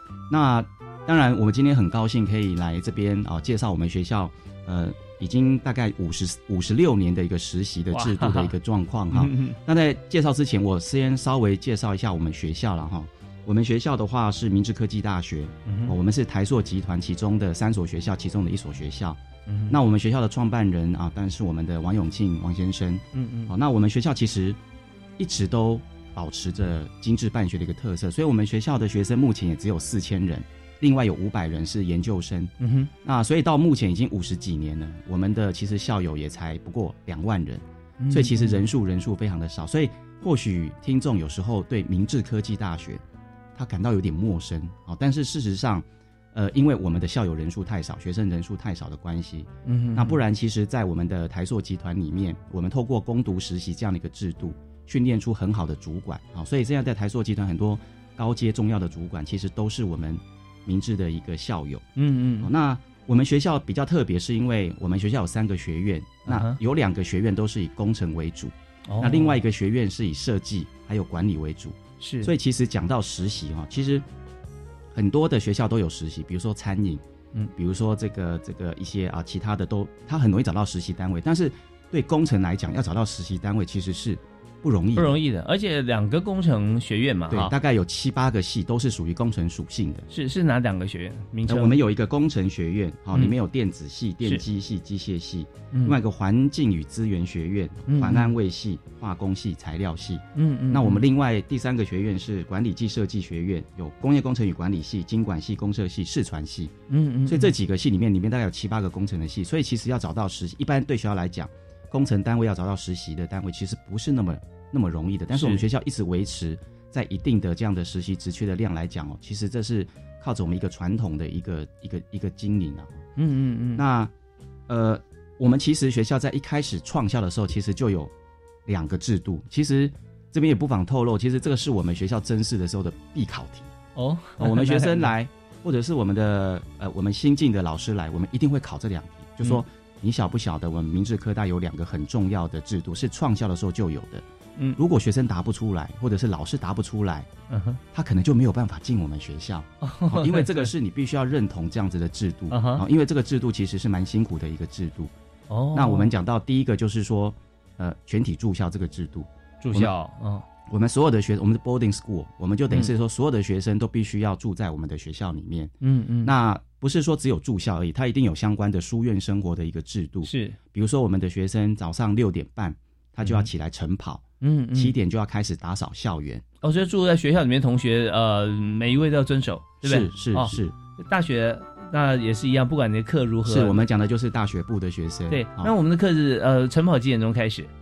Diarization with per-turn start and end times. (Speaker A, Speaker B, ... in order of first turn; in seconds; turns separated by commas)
Speaker A: 0.3-24.6, Speaker B: 7.9-8.5, Speaker B: 9.1-9.6, Speaker B: 15.7-15.9, Speaker B: 19.5-19.8, Speaker B: 23.1-23.5, Speaker A: 25.2-43.0, Speaker B: 32.6-32.9, Speaker B: 38.0-38.6, Speaker A: 43.5-61.9, Speaker B: 49.6-50.2, Speaker B: 62.0-62.5, Speaker A: 62.4-74.0, Speaker B: 66.3-66.6, Speaker B: 68.9-69.4, Speaker B: 72.0-72.3, Speaker A: 74.9-77.0, Speaker A: 77.5-85.2, Speaker B: 85.0-87.5, Speaker A: 87.3-90.1, Speaker B: 90.1-91.8, Speaker A: 91.5-106.7, Speaker B: 95.7-96.0, Speaker B: 97.9-98.3, Speaker B: 100.3-101.0, Speaker B: 106.9-107.5, Speaker A: 107.2-123.0, Speaker B: 115.3-115.6, Speaker B: 123.2-123.8, Speaker A: 123.8-124.1, Speaker A: 124.7-128.1, Speaker A: 128.7-133.7, Speaker B: 133.9-135.1, Speaker A: 134.4-144.2, Speaker A: 144.8-147.3, Speaker B: 147.5-147.8, Speaker A: 147.9-155.1, Speaker B: 149.8-150.7, Speaker B: 152.5-152.8, Speaker B: 155.5-156.1, Speaker A: 155.7-159.9, Speaker B: 159.6-160.4, Speaker A: 160.7-176.4, Speaker B: 165.8-166.3, Speaker B: 170.2-170.6, Speaker B: 173.2-173.5, Speaker B: 174.4-174.9, Speaker B: 176.6-183.8, Speaker A: 179.8-180.7, Speaker A: 183.4-185.7, Speaker B: 185.3-187.7